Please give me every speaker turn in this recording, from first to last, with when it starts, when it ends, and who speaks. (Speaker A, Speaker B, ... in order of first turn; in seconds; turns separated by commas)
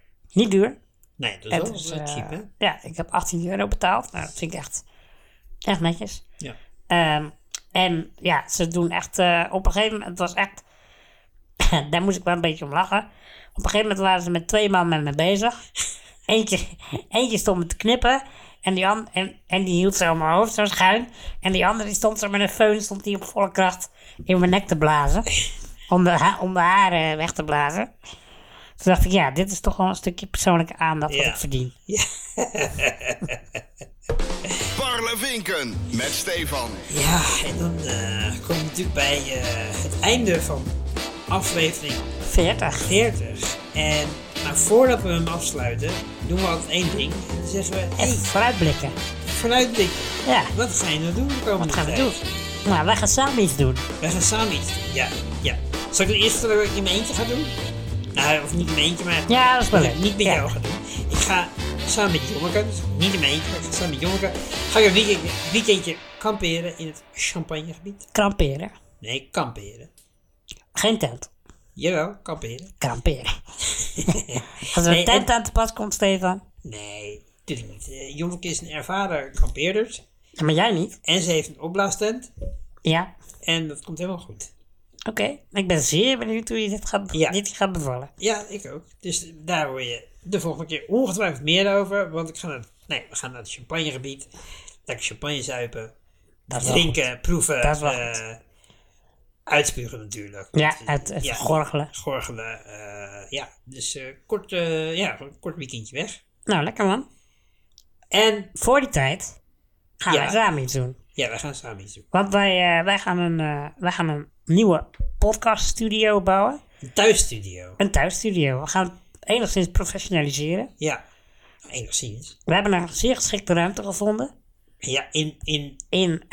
Speaker A: 0.3-0.8, Speaker B: 1.2-2.5, Speaker A: 1.5-4.8, Speaker A: 5.7-6.2, Speaker A: 6.9-10.6, Speaker A: 11.6-15.6, Speaker A: 16.3-25.3, Speaker A: 25.9-27.9, Speaker A: 28.8-31.7, Speaker B: 31.1-33.6, Speaker C: 34.7-36.9, Speaker B: 36.9-42.1, Speaker A: 42.2-42.9, Speaker B: 42.8-48.3, Speaker A: 48.0-49.0, Speaker B: 49.3-52.4, Speaker A: 50.2-50.5, Speaker A: 51.6-53.9, Speaker B: 54.0-57.6, Speaker B: 58.1-68.1, Speaker A: 59.3-60.5, Speaker A: 68.1-68.7, Speaker B: 69.0-69.9, Speaker A: 70.8-71.3, Speaker B: 71.8-72.7, Speaker A: 72.8-73.3, Speaker B: 73.8-75.3, Speaker A: 74.7-76.4, Speaker B: 76.6-80.0, Speaker A: 80.4-81.0, Speaker B: 81.0-82.3, Speaker A: 82.8-83.1, Speaker B: 83.4-84.5, Speaker A: 85.1-88.1, Speaker B: 88.2-94.3, Speaker B: 94.9-95.9, Speaker A: 96.5-97.0, Speaker B: 96.5-98.4, Speaker A: 97.6-98.2, Speaker B: 99.5-106.2, Speaker A: 100.5-101.9, Speaker A: 106.5-107.1, Speaker B: 108.1-108.5, Speaker A: 108.6-109.3, Speaker A: 110.0-111.0, Speaker B: 110.1-110.4, Speaker B: 111.2-112.1, Speaker A: 112.1-116.6, Speaker B: 116.8-117.8, Speaker A: 117.8-120.7, Speaker B: 121.7-122.4, Speaker A: 122.5-124.3, Speaker B: 124.8-125.8, Speaker A: 125.9-126.3